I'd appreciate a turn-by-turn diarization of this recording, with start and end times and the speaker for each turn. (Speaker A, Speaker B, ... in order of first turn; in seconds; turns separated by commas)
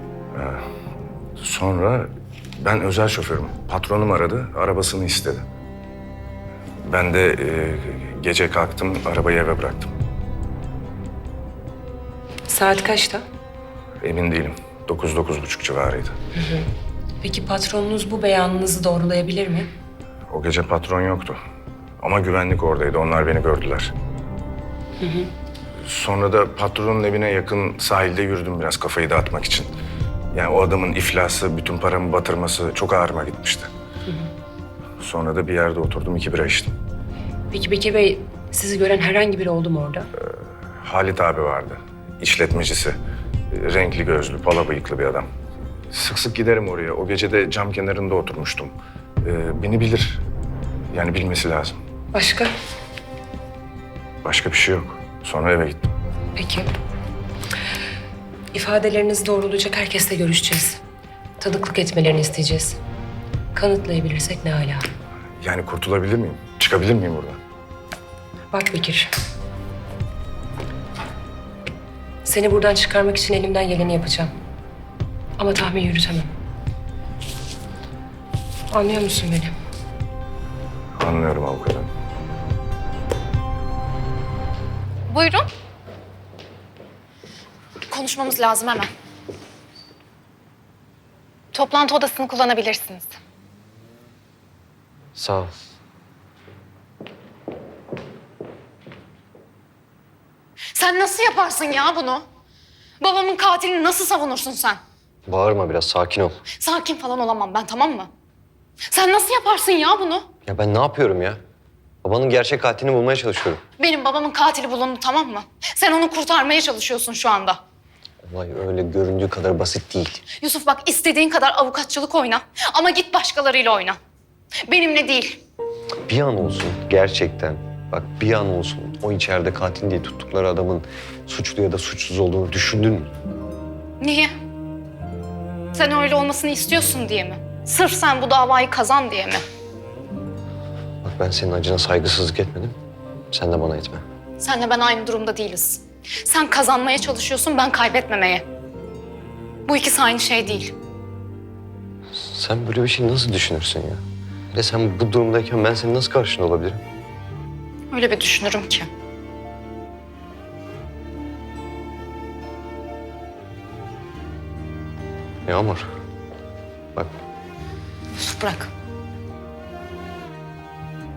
Speaker A: 0.3-0.6, Speaker A: 1.4-5.4, Speaker A: 6.9-9.9, Speaker B: 12.5-13.2, Speaker A: 14.0-16.2, Speaker B: 16.4-16.7, Speaker B: 17.2-19.7, Speaker A: 20.3-21.4, Speaker A: 22.0-23.9, Speaker B: 25.0-25.3, Speaker A: 25.9-29.7, Speaker A: 30.3-33.7, Speaker A: 35.0-36.7, Speaker B: 37.5-40.1, Speaker A: 40.8-43.0, Speaker A: 43.5-45.3, Speaker A: 45.9-50.2, Speaker A: 50.9-51.8, Speaker B: 52.1-52.5, Speaker A: 54.2-55.8, Speaker B: 56.4-56.7, Speaker B: 58.5-60.8, Speaker B: 61.4-62.8, Speaker B: 63.5-64.8, Speaker A: 65.4-67.4, Speaker B: 68.5-69.1, Speaker B: 72.2-74.3, Speaker B: 75.4-76.3, Speaker B: 78.7-79.5, Speaker A: 81.0-81.9, Speaker C: 85.1-85.5, Speaker C: 87.9-88.9, Speaker C: 91.5-93.2, Speaker D: 95.2-95.5, Speaker C: 100.8-102.2, Speaker C: 103.0-104.8, Speaker D: 105.3-106.4, Speaker C: 106.6-108.1, Speaker C: 108.9-110.3, Speaker D: 110.5-111.4, Speaker D: 112.0-113.6, Speaker C: 113.8-117.6, Speaker D: 118.2-120.2, Speaker C: 120.4-124.0, Speaker C: 124.7-125.4, Speaker D: 126.1-133.1, Speaker C: 134.0-134.3, Speaker C: 135.7-139.4, Speaker D: 141.0-142.8, Speaker D: 143.3-144.0, Speaker C: 144.4-148.4, Speaker C: 149.7-150.7, Speaker D: 152.2-154.0, Speaker D: 154.5-156.8, Speaker C: 157.9-158.9, Speaker D: 165.5-165.8, Speaker C: 168.1-168.7